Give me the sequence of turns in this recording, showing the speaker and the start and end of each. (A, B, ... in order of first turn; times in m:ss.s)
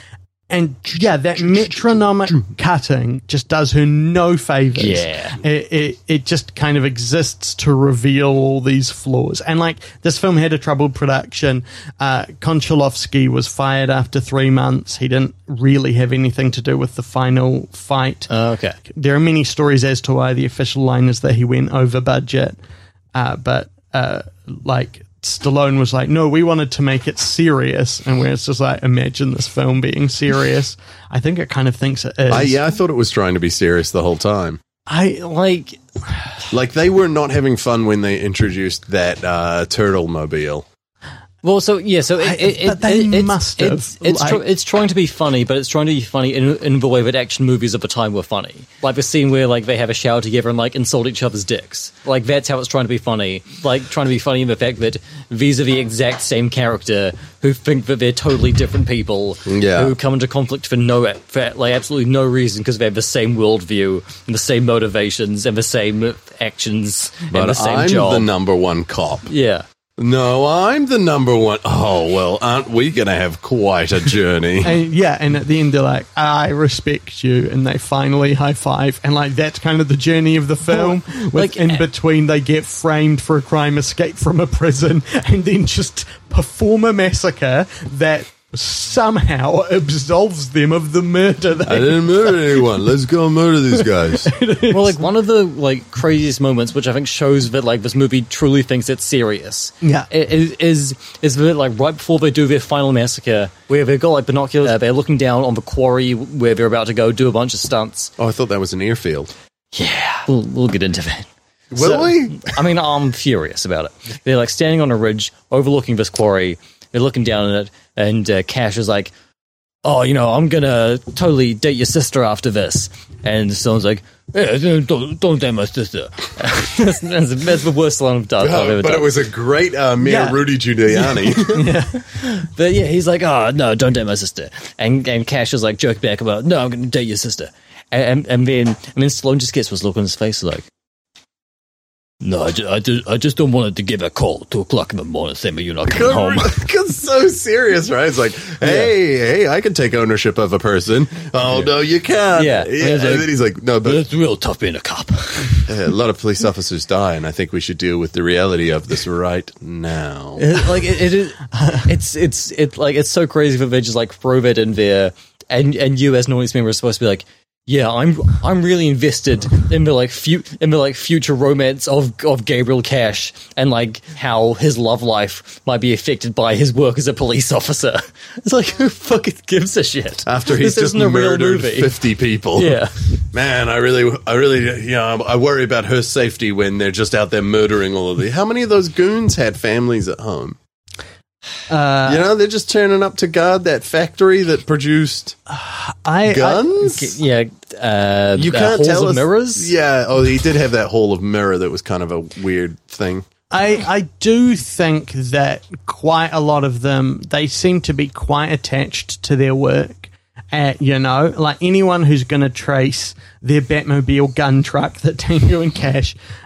0:00.5-0:18.3 A
0:04.8-0:05.4 B
0:18.3-0:18.8 B
0:18.9-0:22.6 A
0:23.1-0:32.6 A
0:32.3-0:34.6 C
0:35.0-0:35.8 B
0:36.5-0:40.6 C
0:41.4-1:08.3 B
0:42.2-0:44.4 A
0:59.4-0:59.9 C
1:07.3-1:09.3 C
1:09.3-1:09.6 B
1:10.0-1:14.7 C
1:14.6-1:32.7 A
1:20.7-1:21.8 B
1:31.6-1:34.3 C
1:33.8-1:35.0 A
1:34.7-1:48.1 B
1:39.8-1:40.1 A
1:48.2-1:49.3 C
1:49.7-1:59.1 B
1:51.7-1:52.5 C
1:59.8-2:09.2 B
2:08.4-2:11.6 C
2:10.0-2:10.4 A
2:11.3-2:11.9 A
2:11.5-2:20.6 B
2:22.2-2:26.5 B
2:25.9-2:34.0 C
2:28.6-2:28.9 B
2:32.3-2:35.7 B
2:35.6-2:40.4 C
2:40.4-3:01.9 B
2:41.5-2:41.9 A
3:00.2-3:02.8 C
3:02.5-3:02.9 B
3:03.3-3:10.6 C
3:11.7-3:12.3 A
3:12.0-3:15.4 C
3:15.5-3:16.7 A
3:16.2-3:17.2 C
3:16.8-3:19.7 B
3:18.4-3:23.3 C
3:23.5-3:36.2 A